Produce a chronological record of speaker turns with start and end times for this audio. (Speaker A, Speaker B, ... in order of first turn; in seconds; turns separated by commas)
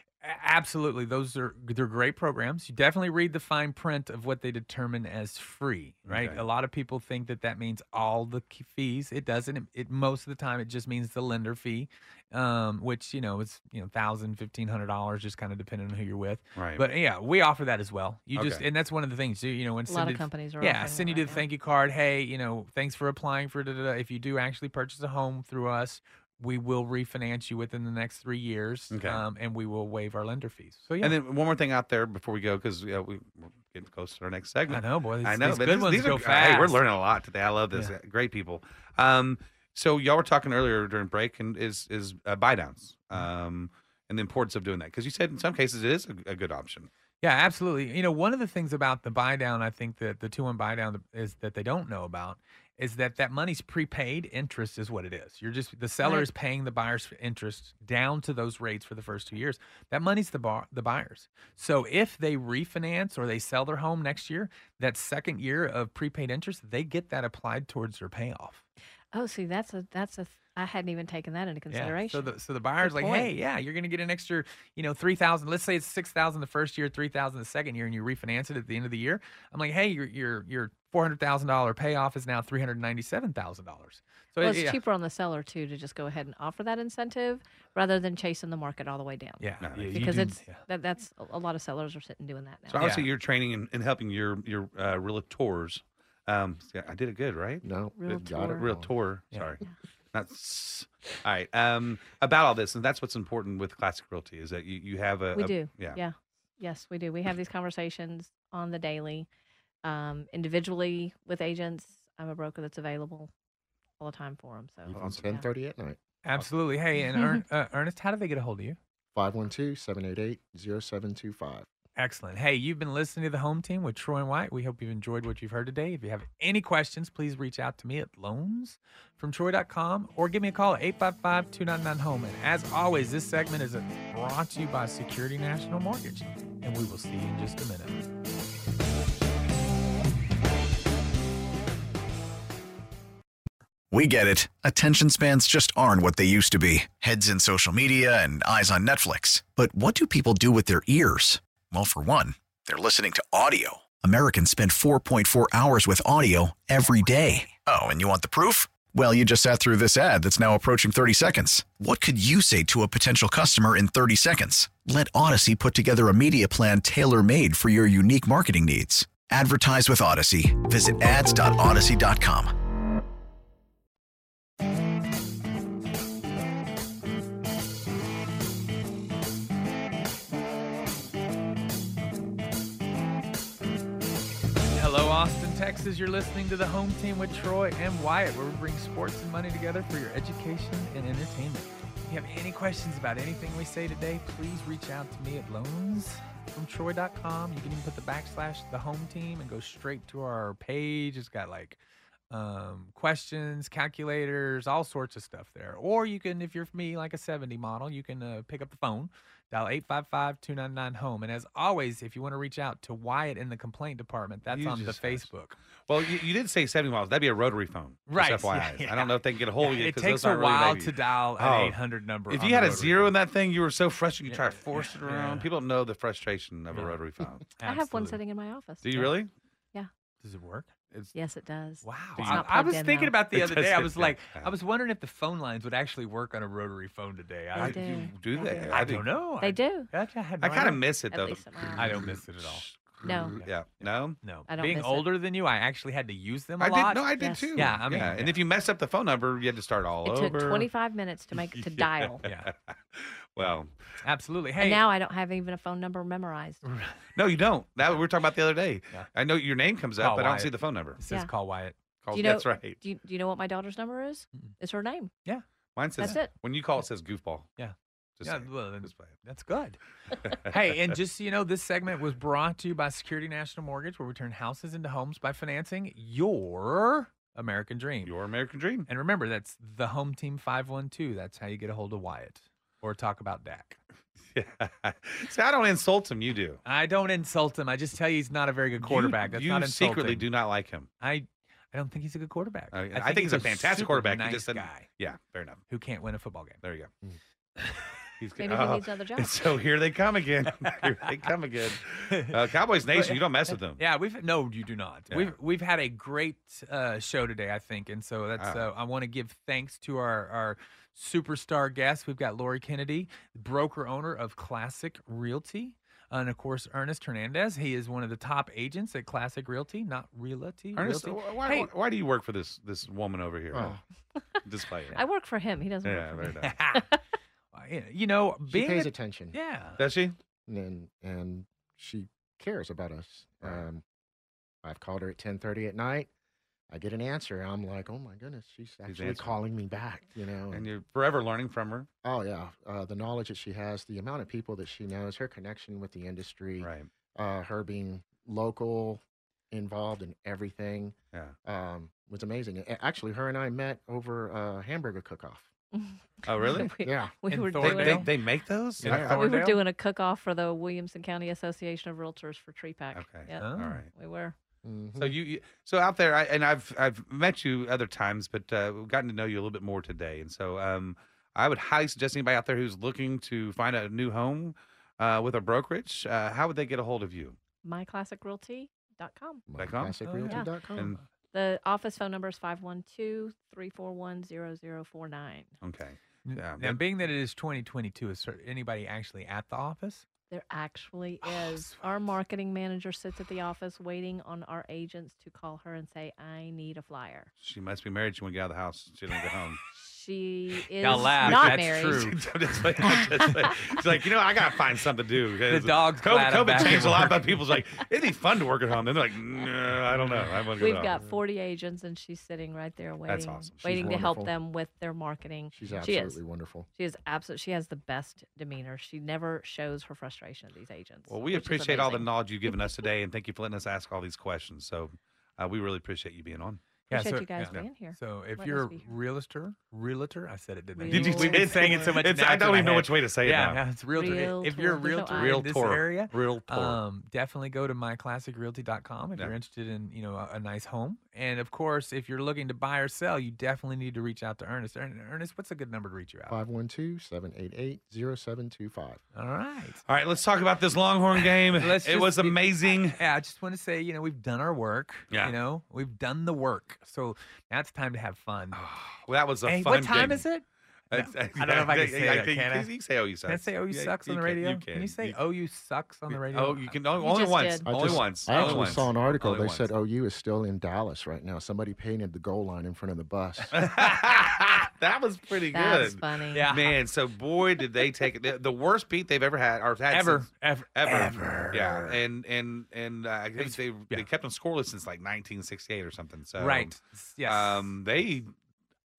Speaker A: 0.2-31.1, Speaker B: 6.1-6.4, Speaker B: 16.5-16.9, Speaker B: 18.3-18.6, Speaker C: 19.9-21.4, Speaker B: 28.9-29.2, Speaker B: 31.0-46.9, Speaker A: 34.7-36.8, Speaker A: 47.2-68.6, Speaker C: 56.0-56.3, Speaker C: 69.1-73.3, Speaker A: 71.7-84.8, Speaker C: 84.4-92.9, Speaker A: 89.4-90.6, Speaker B: 89.6-90.2, Speaker B: 92.7-99.6, Speaker A: 92.8-93.1, Speaker D: 97.6-98.9, Speaker C: 98.0-98.7, Speaker B: 100.1-106.0, Speaker C: 105.3-109.3, Speaker C: 109.8-113.3, Speaker C: 114.0-115.5, Speaker D: 114.8-116.0, Speaker A: 116.2-118.8, Speaker D: 119.1-121.7, Speaker A: 122.0-138.0, Speaker E: 143.9-172.5, Speaker A: 184.7-201.8, Speaker A: 202.3-215.6, Speaker B: 214.5-215.3, Speaker B: 215.8-221.8, Speaker A: 218.1-223.1, Speaker B: 222.3-227.4, Speaker A: 224.3-225.5, Speaker A: 227.6-228.2, Speaker C: 227.6-229.1, Speaker B: 228.8-229.3, Speaker A: 230.2-230.7, Speaker C: 231.1-233.1, Speaker A: 231.8-237.8, Speaker B: 232.2-232.5, Speaker B: 233.3-234.5, Speaker C: 237.5-238.8, Speaker B: 237.6-239.1, Speaker A: 238.6-240.8, Speaker C: 239.4-239.9, Speaker B: 240.4-244.2, Speaker C: 241.1-241.9, Speaker A: 241.8-242.6, Speaker C: 243.0-243.3, Speaker A: 243.3-248.4, Speaker C: 244.5-245.1, Speaker B: 246.6-250.7, Speaker C: 247.2-247.5, Speaker C: 250.0-252.2, Speaker B: 251.6-252.4, Speaker A: 252.2-252.5, Speaker B: 252.9-253.7, Speaker A: 254.0-254.8, Speaker C: 254.6-256.6, Speaker A: 256.6-256.9, Speaker B: 257.1-261.0, Speaker A: 260.0-261.7, Speaker B: 262.0-262.8, Speaker C: 262.1-265.1, Speaker B: 265.8-267.5, Speaker A: 266.0-266.2, Speaker C: 266.0-266.3, Speaker A: 267.6-269.8, Speaker B: 268.2-269.1, Speaker B: 270.2-270.5, Speaker A: 270.3-278.1, Speaker B: 278.0-278.9, Speaker A: 278.9-283.8, Speaker B: 284.3-286.6, Speaker A: 286.6-290.2, Speaker B: 288.8-290.9, Speaker A: 291.0-294.9, Speaker B: 292.7-295.6, Speaker A: 295.7-296.6, Speaker B: 296.6-296.9, Speaker B: 298.2-303.8, Speaker C: 298.4-299.4, Speaker A: 302.1-302.4, Speaker A: 302.9-321.7, Speaker B: 308.4-308.6, Speaker B: 320.8-323.8, Speaker D: 323.5-323.8, Speaker C: 324.1-326.8, Speaker B: 324.4-325.0, Speaker B: 325.8-326.5, Speaker A: 326.4-327.0, Speaker A: 327.5-329.8, Speaker D: 328.5-329.4, Speaker B: 329.8-330.1, Speaker D: 330.5-333.8, Speaker D: 334.6-336.1, Speaker D: 336.7-340.7, Speaker B: 338.9-339.4, Speaker B: 340.5-341.9, Speaker D: 342.0-355.5, Speaker B: 346.6-346.9, Speaker C: 355.7-358.2, Speaker B: 356.2-356.7, Speaker D: 356.8-357.1, Speaker A: 357.3-358.1, Speaker B: 357.6-359.2, Speaker A: 358.8-359.6, Speaker D: 358.8-359.1, Speaker C: 358.8-364.3, Speaker B: 362.9-363.9, Speaker A: 363.4-363.8, Speaker D: 364.6-365.2, Speaker B: 365.0-377.4, Speaker C: 377.6-379.4, Speaker D: 379.5-380.9, Speaker B: 379.6-379.9, Speaker A: 380.0-381.0, Speaker C: 381.3-385.5, Speaker B: 385.6-386.8, Speaker A: 386.2-390.0, Speaker C: 390.3-397.3, Speaker A: 391.2-391.8, Speaker B: 397.4-399.6, Speaker C: 399.7-402.2, Speaker A: 400.8-402.2, Speaker B: 400.8-411.0, Speaker C: 402.8-403.6, Speaker A: 405.5-407.4, Speaker C: 410.6-416.2, Speaker B: 413.1-413.6, Speaker D: 413.6-414.3, Speaker D: 415.5-416.7, Speaker C: 416.8-422.6, Speaker B: 421.1-426.6, Speaker C: 426.9-428.9, Speaker A: 426.9-446.4, Speaker C: 430.8-431.8, Speaker B: 430.9-433.6, Speaker C: 433.9-435.5, Speaker B: 435.1-436.8, Speaker D: 446.3-449.0, Speaker A: 449.1-449.8, Speaker B: 449.9-453.0, Speaker A: 451.5-458.6, Speaker B: 458.5-460.2, Speaker A: 459.4-462.7, Speaker B: 460.9-465.2, Speaker A: 463.3-466.8, Speaker B: 466.1-469.7, Speaker C: 467.0-468.0, Speaker D: 467.6-473.6, Speaker A: 468.3-468.9, Speaker B: 473.5-486.7, Speaker A: 473.6-473.9, Speaker C: 475.5-476.5, Speaker A: 476.3-476.7, Speaker A: 479.9-482.0, Speaker A: 483.4-484.1, Speaker A: 486.4-487.7, Speaker B: 487.2-488.3